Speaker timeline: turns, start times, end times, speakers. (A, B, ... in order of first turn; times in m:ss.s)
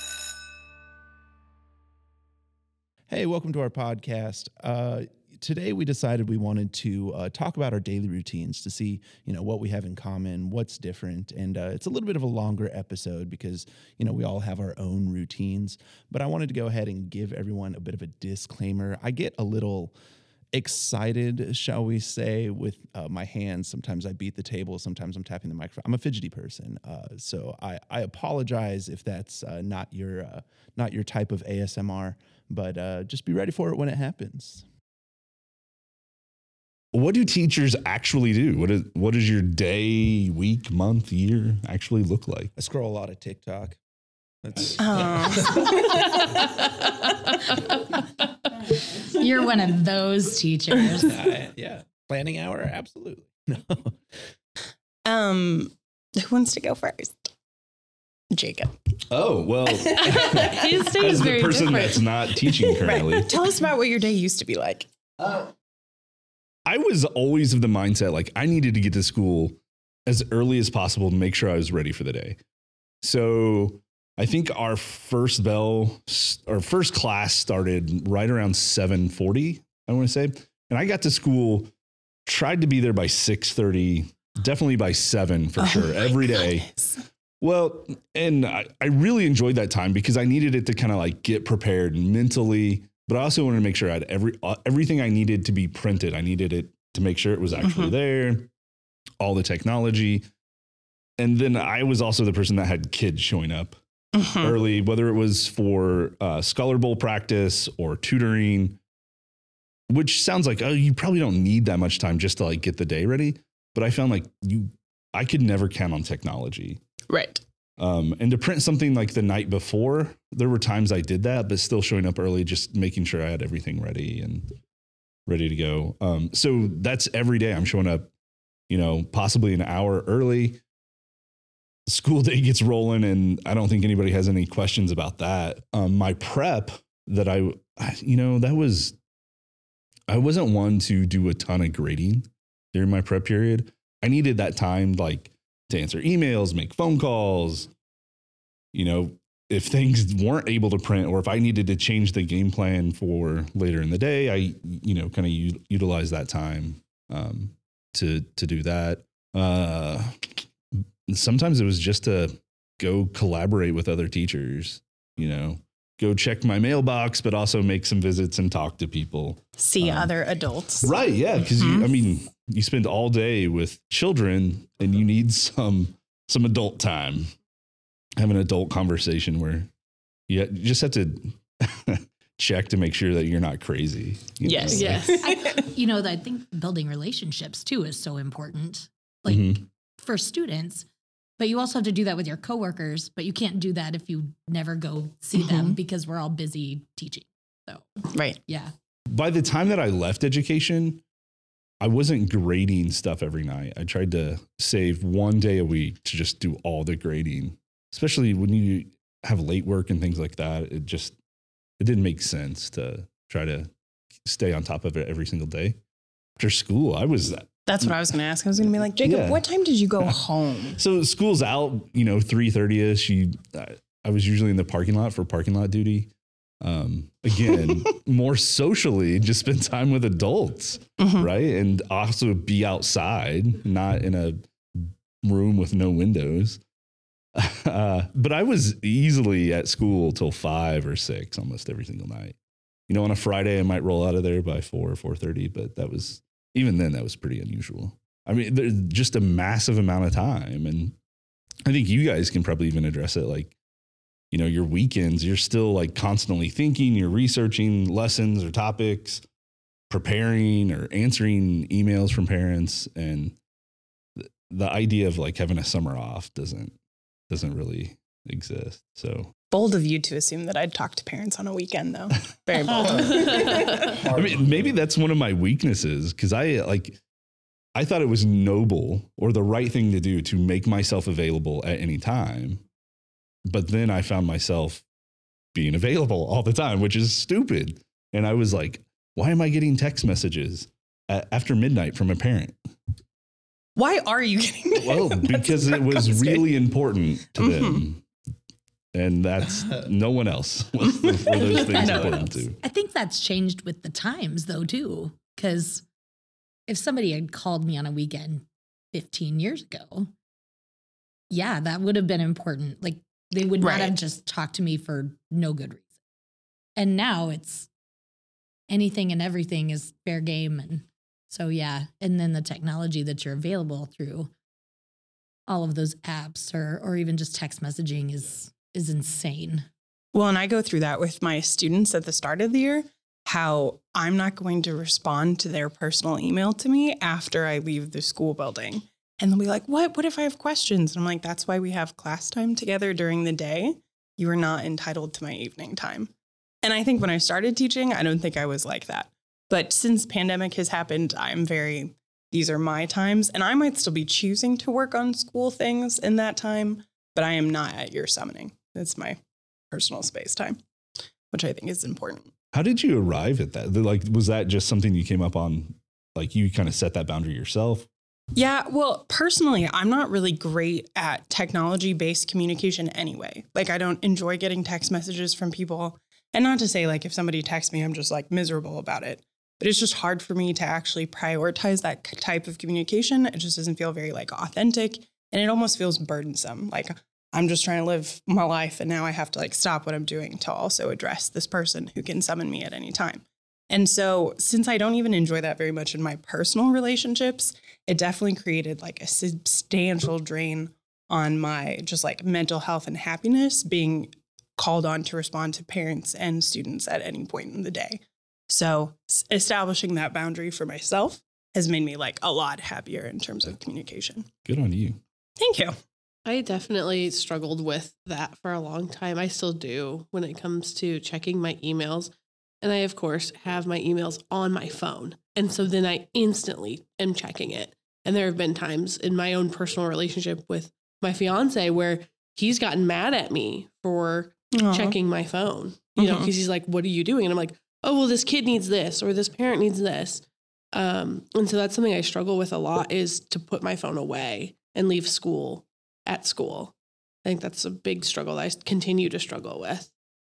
0:03.1-0:19.9 A
0:20.5-0:34.6 A
0:36.9-0:42.5 B
0:42.6-0:43.8 A
0:44.4-0:46.1 A
0:44.8-0:46.2 C
0:48.9-0:51.1 D
0:51.0-0:54.0 A
0:55.0-0:57.3 C
0:58.3-0:58.8 C
0:59.1-1:03.3 B
0:59.7-1:00.6 C
1:00.0-1:02.2 E
1:02.8-1:05.4 C
1:06.6-1:12.4 B
1:13.0-1:21.7 B
1:22.2-1:26.7 B
1:25.6-1:27.0 C
1:27.4-1:38.5 B
1:37.6-1:37.9 C
1:39.2-1:40.2 B
1:41.2-1:43.8 B
1:44.1-1:44.6 C
1:44.3-1:48.8 B
1:49.9-1:56.8 B
1:57.1-1:57.4 C
1:57.8-2:04.6 B
2:05.3-2:08.1 B
2:08.7-2:10.6 B
2:11.8-2:19.0 B
2:20.1-2:27.7 B
2:28.7-2:40.2 B
2:41.1-2:50.1 B
2:49.6-2:50.9 C
2:50.8-2:57.3 B
2:51.5-2:51.9 C
2:58.2-2:59.7 B
3:00.3-3:05.2 B
3:04.4-3:05.7 C
3:04.7-3:05.3 E
3:05.2-3:10.8 D
3:09.3-3:09.6 B
3:11.4-3:17.9 D
3:15.4-3:15.8 C
3:18.1-3:18.4 C
3:18.4-3:18.7 D
3:19.1-3:21.0 B
3:21.8-3:31.2 B
3:31.8-3:33.7 B
3:34.2-3:35.8 B
3:36.4-3:38.0 B
3:37.7-3:40.8 C
3:38.8-3:39.4 B
3:40.8-3:46.1 B
3:46.6-3:56.6 B
3:51.0-3:51.3 C
3:57.3-4:02.4 B
4:02.9-4:10.9 B
4:11.6-4:13.5 B
4:14.3-4:19.2 B
4:19.9-4:23.4 B
4:24.2-4:26.8 B
4:27.3-4:29.3 B
4:29.5-4:34.0 C
4:32.7-4:37.0 B
4:32.8-4:34.8 A
4:37.8-4:42.6 B
4:43.5-4:44.8 B
4:45.5-4:52.6 B
4:53.8-4:56.4 C
4:54.8-4:58.0 B
4:57.4-4:57.8 C
4:58.9-5:02.6 B
5:01.0-5:02.2 C
5:01.4-5:05.8 D
5:06.7-5:10.1 D
5:11.3-5:16.0 D
5:13.6-5:13.9 C
5:16.8-5:17.7 D
5:18.7-5:24.3 D
5:25.5-5:29.6 D
5:30.1-5:46.1 C
5:46.6-5:59.2 C
5:59.7-6:00.6 C
6:01.3-6:02.3 C
6:02.5-6:07.9 B
6:08.3-6:54.3 C
6:54.4-6:55.0 B
6:55.4-6:55.8 C
6:56.2-7:26.7 E
7:14.5-7:15.0 C
7:16.0-7:16.3 C
7:27.2-7:29.9 E